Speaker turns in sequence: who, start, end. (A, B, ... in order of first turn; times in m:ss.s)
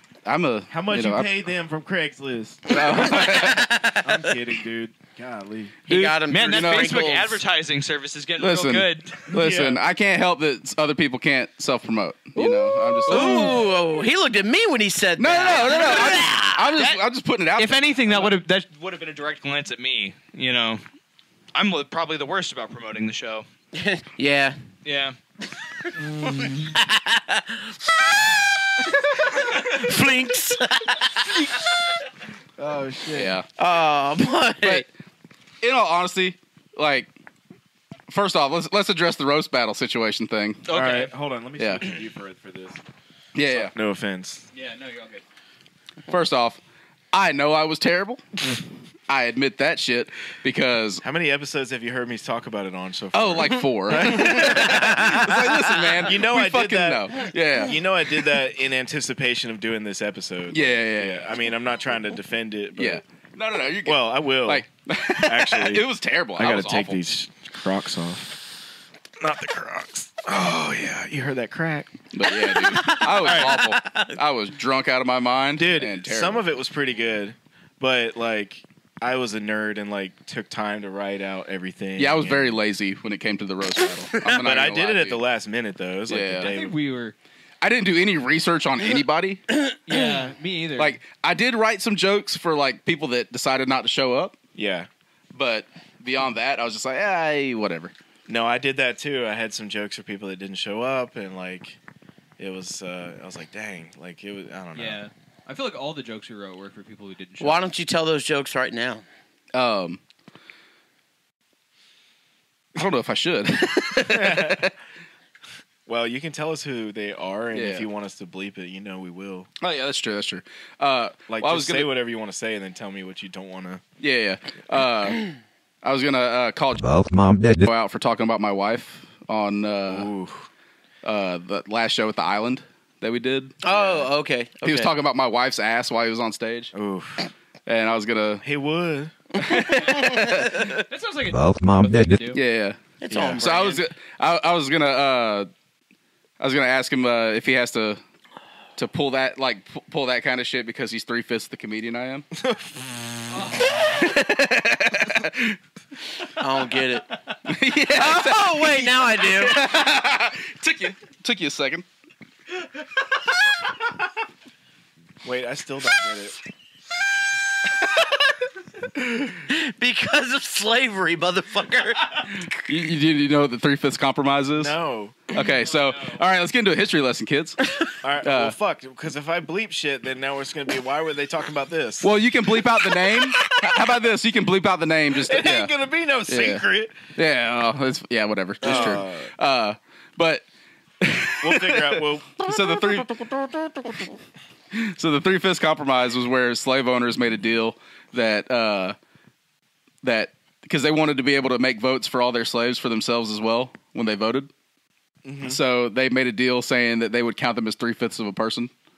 0:00.2-0:01.3 A
0:00.7-0:03.2 B
0:02.7-0:03.7 A
0:02.7-0:04.1 C
0:03.8-0:05.8 B
0:05.9-0:07.4 C
0:05.9-0:09.3 D
0:05.9-0:07.1 A
0:08.4-0:13.6 A
0:09.3-0:09.8 B
0:13.0-0:16.7 C
0:13.1-0:13.7 D
0:15.2-0:18.3 A
0:15.6-0:16.1 D
0:16.7-0:17.0 D
0:17.6-0:20.8 D
0:21.5-0:23.4 D
0:23.7-0:24.6 C
0:24.8-0:25.2 D
0:26.0-0:26.7 B
0:26.7-0:27.7 C
0:29.3-0:31.3 C
0:32.6-0:33.4 B
0:33.1-0:33.4 A
0:33.6-0:34.8 C
0:34.6-0:34.9 A
0:35.6-0:37.1 A
0:38.1-0:40.6 A
0:40.7-0:41.1 D
0:40.7-0:42.8 B
0:41.6-0:41.8 A
0:43.3-0:43.7 A
0:43.4-0:44.4 B
0:44.5-0:45.2 D
0:46.1-0:46.6 A
0:47.1-0:48.2 A
0:49.1-0:51.0 A
0:51.0-0:55.4 B
0:53.1-0:57.8 A
0:54.2-0:55.1 C
0:56.0-1:03.0 B
1:00.5-1:01.3 A
1:02.8-1:07.0 A
1:03.8-1:05.8 B
1:06.4-1:08.4 B
1:09.2-1:11.9 B
1:12.1-1:16.5 A
1:12.4-1:14.2 C
1:15.6-1:22.6 B
1:22.0-1:25.2 A
1:24.3-1:26.7 B
1:26.1-1:26.5 A
1:26.4-1:27.1 D
1:27.6-1:29.4 A
1:29.9-1:31.0 D
1:30.8-1:34.4 A
1:34.5-1:34.9 B
1:35.3-1:37.9 A
1:38.3-1:41.8 B
1:42.4-1:45.0 B
1:44.7-1:47.6 D
1:47.4-1:49.0 C
1:49.5-1:50.0 A
1:52.8-1:54.7 A
1:54.0-1:54.7 B
1:55.8-1:59.5 B
1:57.5-1:57.9 A
1:59.6-2:01.9 A
2:01.3-2:03.8 B
2:04.0-2:05.2 A
2:05.8-2:06.8 A
2:06.8-2:07.6 E
2:07.6-2:10.1 A
2:09.9-2:10.5 B
2:11.0-2:13.5 A
2:13.6-2:14.9 C
2:13.7-2:14.1 B
2:14.6-2:16.7 A
2:16.7-2:17.3 B
2:17.6-2:18.4 A
2:18.4-2:19.1 B
2:19.4-2:20.7 A
2:19.4-2:20.4 C
2:19.8-2:20.0 D
2:20.9-2:22.4 D
2:21.3-2:22.4 E
2:22.3-2:25.5 A
2:23.0-2:23.8 C
2:23.1-2:23.4 B
2:26.4-2:28.0 A
2:28.8-2:32.3 A
2:32.4-2:32.7 B
2:33.3-2:33.8 D
2:33.7-2:35.6 A
2:36.4-2:37.0 C
2:37.4-2:41.8 A
2:37.9-2:39.6 C
2:45.2-2:46.4 B
2:49.4-2:52.5 C
2:52.6-2:54.7 A
2:54.6-2:55.3 B
2:55.3-2:57.6 A
2:55.6-2:56.2 D
2:58.0-3:02.1 B
2:58.2-2:58.6 A
3:02.0-3:05.7 A
3:02.7-3:03.9 B
3:05.1-3:06.9 B
3:06.3-3:06.6 A
3:07.1-3:10.4 A
3:08.6-3:09.3 B
3:11.0-3:14.0 A
3:11.4-3:13.3 B
3:14.7-3:19.0 A
3:20.0-3:24.5 A
3:25.2-3:25.6 B
3:25.4-3:28.7 A